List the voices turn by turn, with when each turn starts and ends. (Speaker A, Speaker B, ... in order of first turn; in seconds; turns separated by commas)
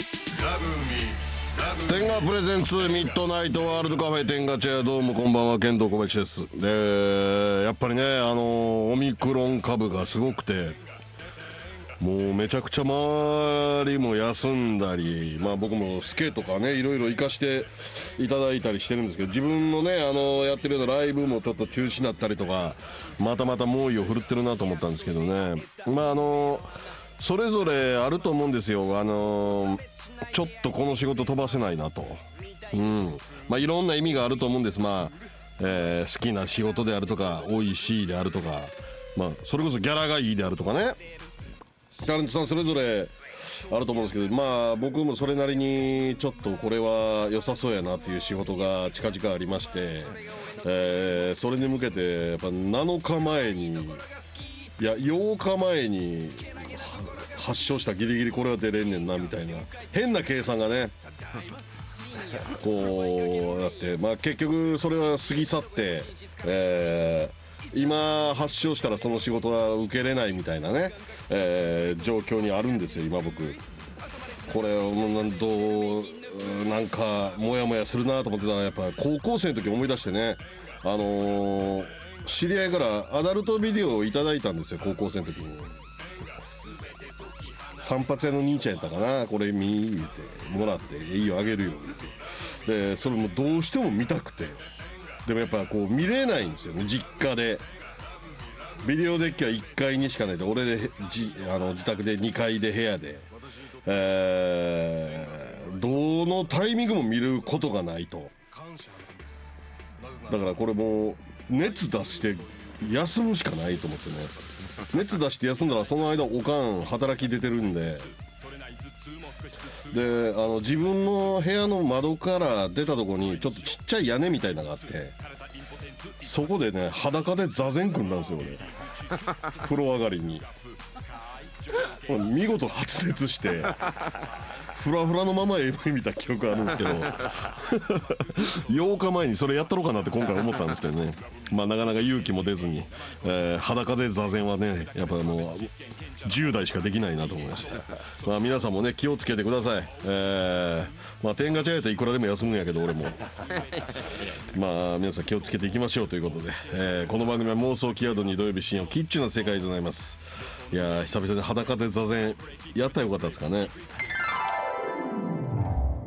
Speaker A: 0.3-10.8, Speaker A: 12.0-41.0, Speaker A: 42.0-54.0, Speaker A: 54.8-61.0, Speaker A: 62.5-73.6, Speaker A: 74.5-85.7, Speaker A: 87.8-94.6, Speaker A: 95.2-97.7, Speaker A: 98.8-103.3, Speaker A: 103.8-109.5, Speaker A: 110.0-114.3, Speaker A: 114.9-118.1, Speaker A: 119.9-125.2, Speaker A: 126.2-128.7, Speaker A: 129.5-130.5, Speaker A: 132.1-133.9, Speaker A: 134.8-145.7, Speaker A: 146.2-153.4, Speaker A: 154.5-163.7